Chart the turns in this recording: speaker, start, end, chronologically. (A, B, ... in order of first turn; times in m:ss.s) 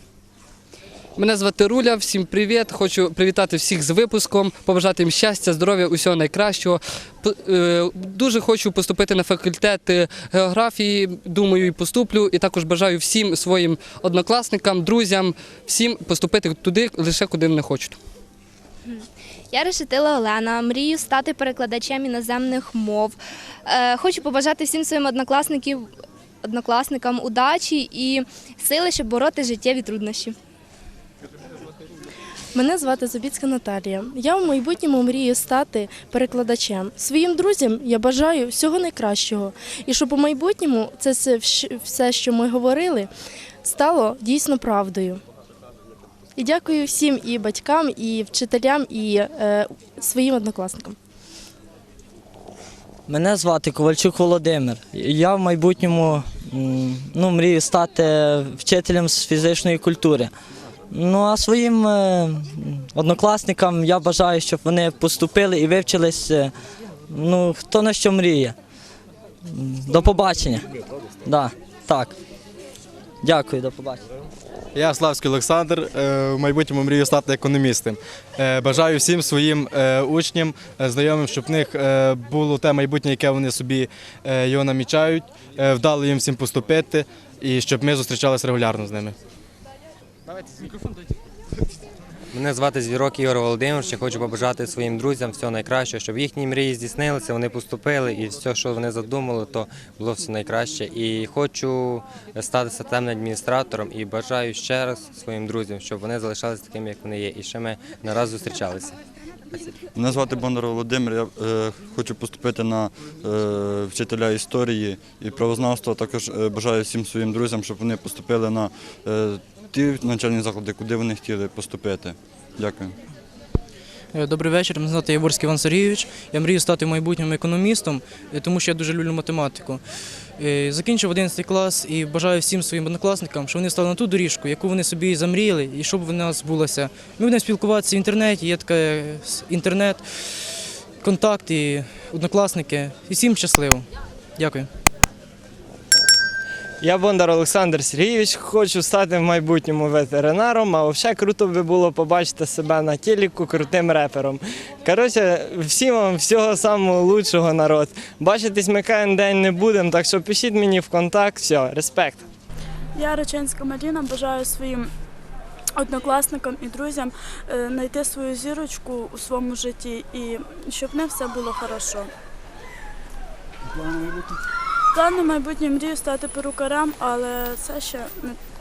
0:01.2-0:17.9 A
0:18.9-0:25.9 B
0:26.4-0:30.3 B
0:32.5-0:43.1 C
0:43.6-0:45.2 C
0:46.4-0:51.0 C
0:53.1-1:00.3 D
1:00.9-1:06.5 D
1:07.1-1:08.5 D
1:09.7-1:10.6 D
1:11.3-1:12.1 D
1:13.2-1:14.0 D
1:14.7-1:29.1 E
1:32.3-1:49.0 F
1:49.9-2:02.9 G
2:04.1-2:09.8 H
2:10.4-2:23.9 H
2:24.4-2:24.7 H
2:26.8-2:42.2 I
2:43.0-2:44.9 J
2:45.8-2:52.1 J
2:53.8-2:54.1 J
2:54.9-2:58.4 J